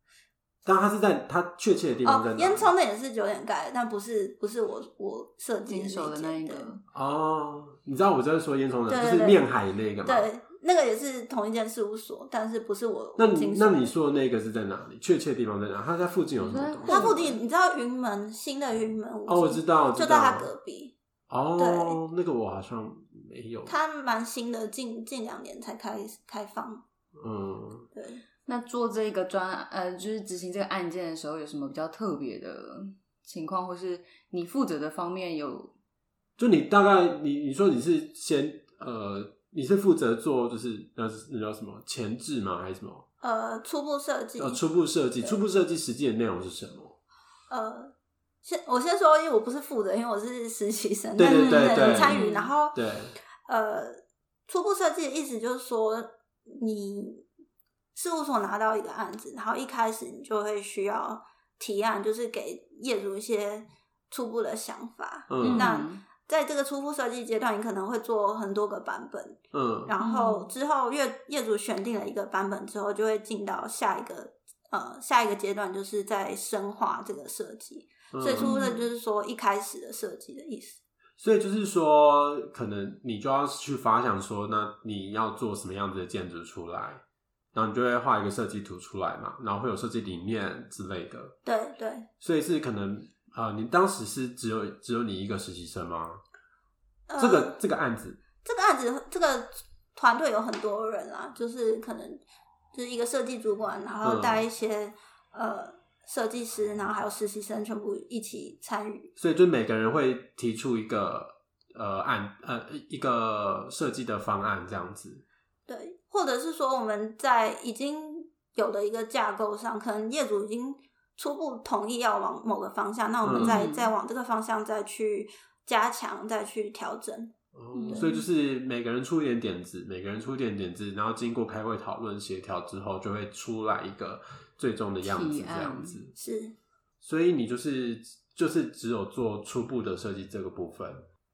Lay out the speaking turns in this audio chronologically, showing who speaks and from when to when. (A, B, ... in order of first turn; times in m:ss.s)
0:00.6-0:02.7 A
0:02.0-0:06.7 B
0:05.7-0:06.8 C
0:06.9-0:10.3 A
0:08.9-0:09.4 B
0:10.0-0:13.9 B
0:13.2-0:17.1 A
0:16.4-0:17.4 C
0:16.9-0:20.9 B
0:19.3-0:20.5 A
0:21.3-0:23.7 A
0:21.6-0:22.0 B
0:23.7-0:26.8 B
0:27.2-0:27.9 A
0:27.9-0:28.2 B
0:28.4-0:35.7 C
0:36.4-0:43.0 A
0:43.2-0:44.6 B
0:44.4-0:47.0 A
0:47.5-0:52.8 B
0:51.2-0:52.2 A
0:51.2-0:52.5 C
0:52.7-0:53.1 A
0:53.4-0:57.2 B
0:57.9-1:20.8 B
1:05.3-1:05.7 A
1:05.4-1:06.0 C
1:09.5-1:09.9 A
1:10.0-1:10.5 C
1:18.1-1:18.5 A
1:18.4-1:18.8 C
1:21.2-1:27.0 A
1:27.5-1:31.4 A
1:31.4-1:32.1 B
1:32.2-1:36.2 A
1:37.1-1:37.6 B
1:37.2-1:38.2 A
1:38.4-1:42.2 B
1:42.7-1:49.1 B
1:44.0-1:44.4 A
1:49.2-1:55.2 A
1:55.7-2:07.3 B
2:03.2-2:03.6 A
2:03.4-2:03.9 C
2:07.5-2:16.1 A
2:07.7-2:08.2 C
2:15.0-2:16.0 C
2:16.2-2:16.6 B
2:17.0-2:21.0 A